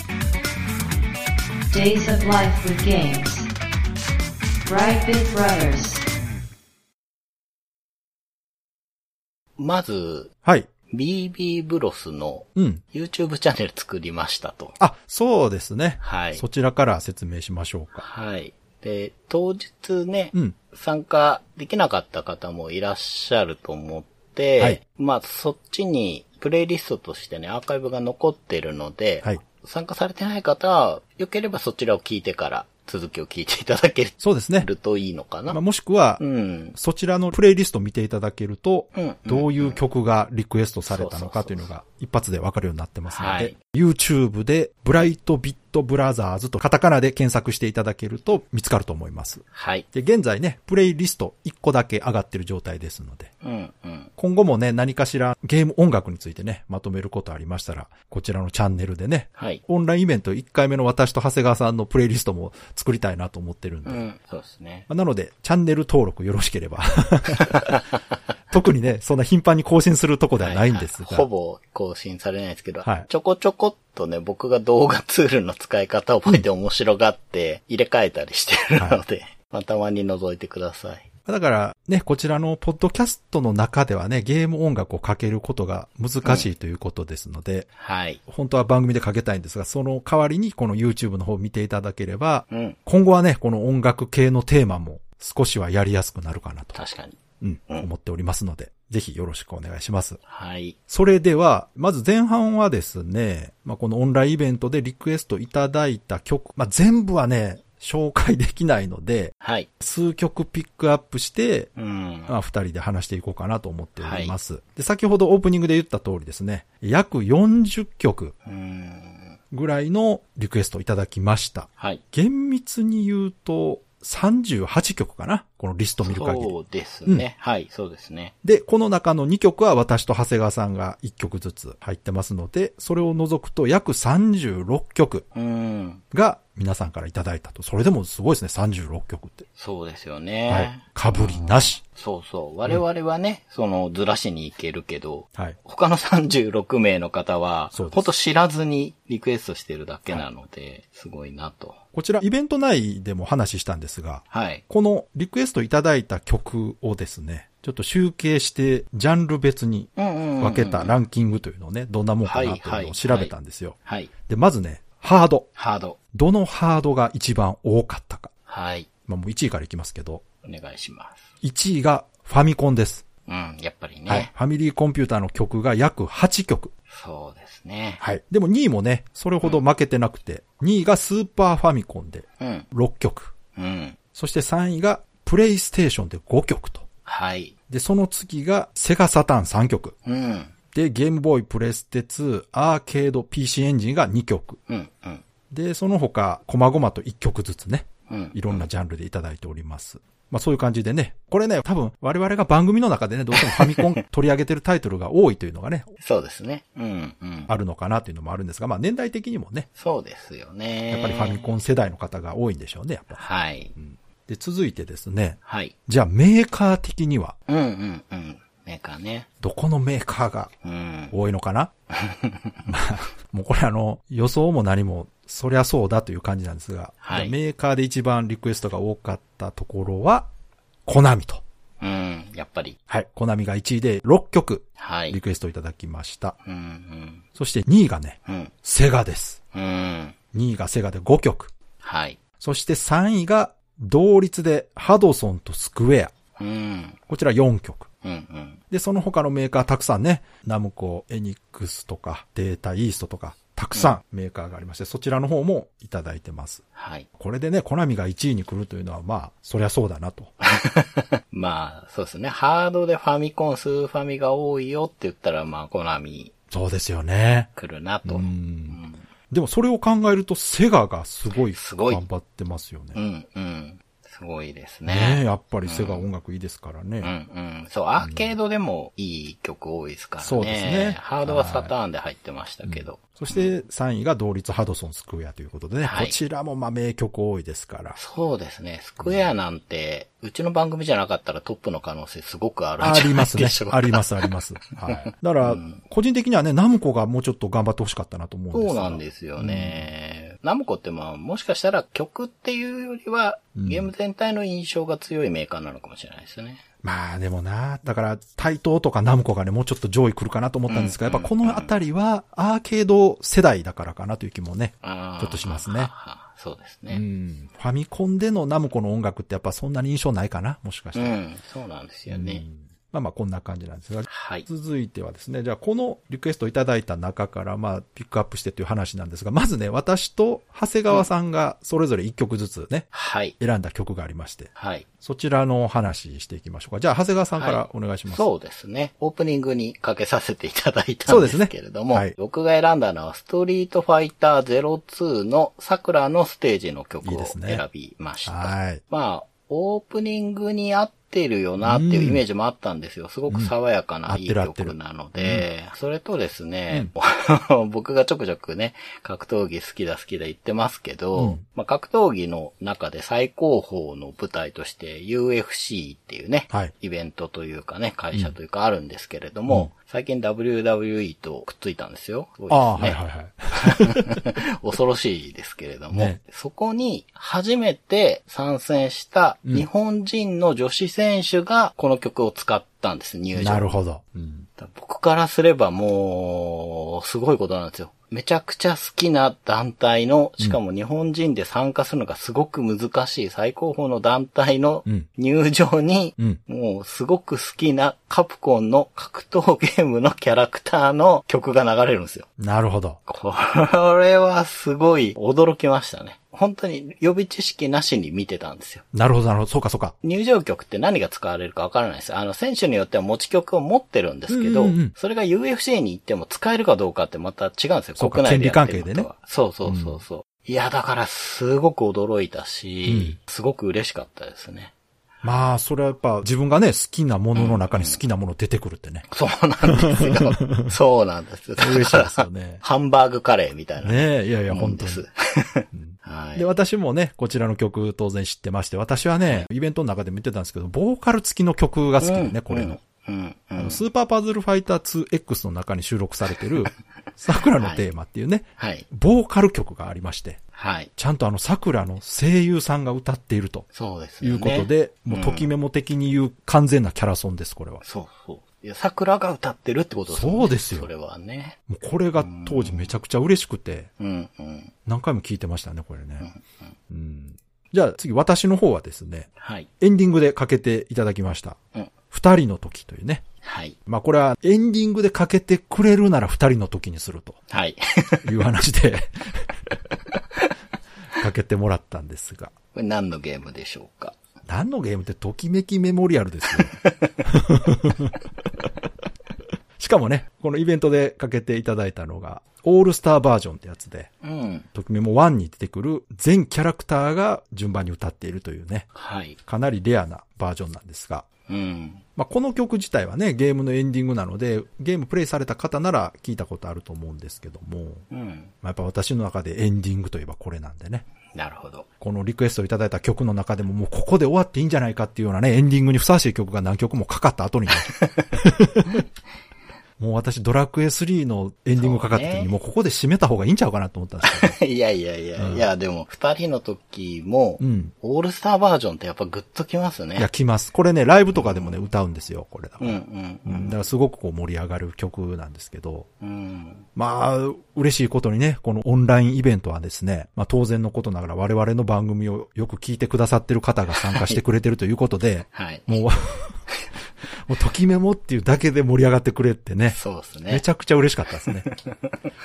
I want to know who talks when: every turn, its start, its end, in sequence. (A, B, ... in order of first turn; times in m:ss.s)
0:01.7-0:03.5 A
0:04.6-0:06.0 A
0:09.6-0:10.3 B
0:10.4-0:10.7 C
0:10.9-0:14.8 B
0:12.6-0:12.8 C
0:14.8-0:18.0 C
0:16.0-0:16.4 B
0:18.0-0:35.6 B
0:34.2-0:34.7 C
0:35.5-0:36.2 C
0:36.2-0:36.8 B
0:36.7-0:53.3 C
0:38.9-0:39.8 B
0:40.9-0:41.7 B
0:43.1-0:43.5 B
0:49.5-0:49.8 B
0:53.4-0:54.1 B
0:54.2-1:04.0 C
0:59.4-0:59.6 B
1:03.8-1:04.9 B
1:04.9-1:07.7 C
1:07.4-1:07.8 B
1:08.5-1:11.3 C
1:10.4-1:21.1 B
1:21.2-1:27.7 C
1:26.2-1:26.5 B
1:27.8-1:28.2 B
1:28.3-1:36.8 C
1:32.5-1:32.8 B
1:36.7-1:37.9 B
1:37.4-1:40.2 C
1:40.3-1:40.8 B
1:40.9-1:51.7 C
1:49.4-1:49.7 B
1:51.8-1:52.3 B
1:52.3-1:58.3 C
1:54.0-1:54.3 B
1:58.4-1:59.4 B
1:59.5-2:06.5 C
2:06.0-2:08.3 B
2:08.4-2:15.2 C
2:15.3-2:16.0 B
2:16.1-2:19.4 C
2:19.6-2:31.8 B
2:20.5-2:21.8 C
2:27.7-2:28.1 C
2:31.9-2:45.5 C
2:34.3-2:34.6 B
2:40.0-2:40.9 B
2:42.2-2:43.3 B
2:43.8-2:44.1 B
2:45.6-2:46.0 B
2:46.1-2:48.3 C
2:48.5-2:48.9 B
2:49.1-2:50.2 C
2:50.4-2:51.3 B
2:51.4-2:53.0 C
2:53.3-2:54.3 B
2:54.1-2:56.7 C
2:56.9-2:58.0 B
2:58.0-3:03.3 C
3:02.4-3:02.6 B
3:03.5-3:04.0 B
3:04.1-3:06.9 C
3:07.0-3:07.5 B
3:07.7-3:09.9 C
3:10.0-3:10.5 B
3:10.7-3:14.6 C
3:14.7-3:15.2 B
3:15.5-3:25.9 C
3:18.1-3:18.7 B
3:23.3-3:24.0 B
3:26.0-3:27.5 B
3:27.5-3:29.7 C
3:29.8-3:31.5 B
3:30.9-3:33.2 C
3:33.2-3:33.7 B
3:33.8-3:37.4 C
3:35.4-3:35.7 B
3:37.5-3:39.3 B
3:39.4-3:40.5 C
3:40.6-3:41.1 B
3:41.1-3:41.7 C
3:41.9-3:42.8 B
3:42.7-3:50.3 C
3:47.0-3:47.3 B
3:50.8-3:51.4 C
3:51.8-3:52.8 B
3:52.9-3:56.4 C
3:54.8-3:55.2 B
3:56.4-3:57.2 B
3:57.4-3:59.4 C
3:58.2-3:58.5 B
3:59.5-4:00.2 B
4:00.3-4:01.5 C
4:01.8-4:02.2 B
4:02.4-4:06.1 C
4:06.4-4:07.0 B
4:07.1-4:07.9 C
4:08.0-4:08.6 B
4:08.7-4:16.6 C
4:16.7-4:17.1 B
4:17.2-4:20.3 C
4:20.4-4:26.3 B
4:26.5-4:27.5 C
4:27.5-4:29.0 B
4:28.0-4:33.0 C
4:31.5-4:32.0 B
4:32.9-4:36.0 B
4:34.8-4:37.1 C
4:37.0-4:43.5 B
4:38.0-4:38.3 C
4:40.2-4:41.7 C
4:42.6-4:48.0 C
4:45.8-4:46.2 B
4:48.0-4:55.8 B
4:52.8-4:59.8 C
4:58.5-5:06.6 B
5:03.6-5:03.9 C
5:06.8-5:15.9 C
5:10.7-5:11.7 B
5:14.8-5:17.0 B
5:16.9-5:21.1 C
5:20.9-5:22.4 B
5:22.1-5:32.9 C
5:24.1-5:24.5 B
5:32.9-5:33.3 B
5:33.4-5:34.5 C
5:34.6-5:34.8 B
5:35.0-5:38.3 C
5:37.3-6:13.0 B
5:41.1-5:42.1 C
5:47.0-5:47.6 C
5:48.2-5:48.8 C
5:51.6-5:52.2 C
5:54.1-5:55.4 C
6:01.1-6:01.4 C
6:12.5-6:14.2 C
6:13.5-6:23.6 B
6:15.9-6:16.2 C
6:23.4-6:24.5 C
6:24.6-6:42.3 B
6:42.4-6:43.0 C
6:43.1-6:48.8 B
6:48.9-6:49.9 C
6:50.0-7:04.7 B
6:54.3-6:54.9 C
6:58.0-6:59.1 C
6:59.6-7:00.0 C
7:02.9-7:03.2 C
7:05.2-7:09.0 C
7:07.3-7:08.0 B
7:09.1-7:16.5 B
7:09.8-7:10.7 C
7:11.6-7:12.6 C
7:13.8-7:15.0 C
7:15.7-7:22.8 C
7:19.2-7:19.5 B
7:22.0-7:23.8 B
7:23.6-7:30.4 C
7:27.6-7:27.8 B
7:28.6-7:28.8 B
7:30.5-7:30.9 B
7:31.0-7:33.7 C
7:33.7-7:35.5 B
7:34.2-7:37.8 C
7:37.8-7:41.6 B
7:40.1-7:40.9 C
7:41.7-7:43.9 C
7:42.2-7:42.9 B
7:44.0-7:44.7 B
7:44.8-7:46.3 C
7:46.9-7:51.6 C
7:49.4-7:49.7 B
7:52.1-7:53.2 C
7:53.4-7:53.8 B
7:53.8-7:57.4 C
7:57.5-7:58.3 B
7:58.2-7:59.8 C
8:01.2-8:02.5 C
8:02.7-8:04.2 B
8:04.4-8:08.1 C
8:06.5-8:07.2 B
8:09.8-8:14.1 C
8:14.2-8:14.7 B
8:14.7-8:18.9 C
8:18.9-8:19.4 B
8:19.4-8:21.2 C
8:21.5-8:22.0 B
8:22.2-8:28.1 C
8:28.1-8:28.5 B
8:28.6-8:31.0 C
8:31.3-8:31.8 B
8:32.0-8:39.0 C
8:37.8-8:38.4 B
8:40.0-8:44.6 C
8:41.8-8:42.5 B
8:44.2-8:50.3 B
8:45.4-8:45.6 C
8:47.6-8:47.9 C
8:50.2-8:56.1 C
8:51.3-8:51.8 B
8:52.8-8:53.8 B
8:56.2-8:56.8 B
8:56.9-9:06.6 C
9:04.0-9:04.4 B
9:05.5-9:06.0 B
9:07.4-9:10.0 C
9:09.9-9:10.6 B
9:10.5-9:11.7 C
9:11.7-9:12.1 B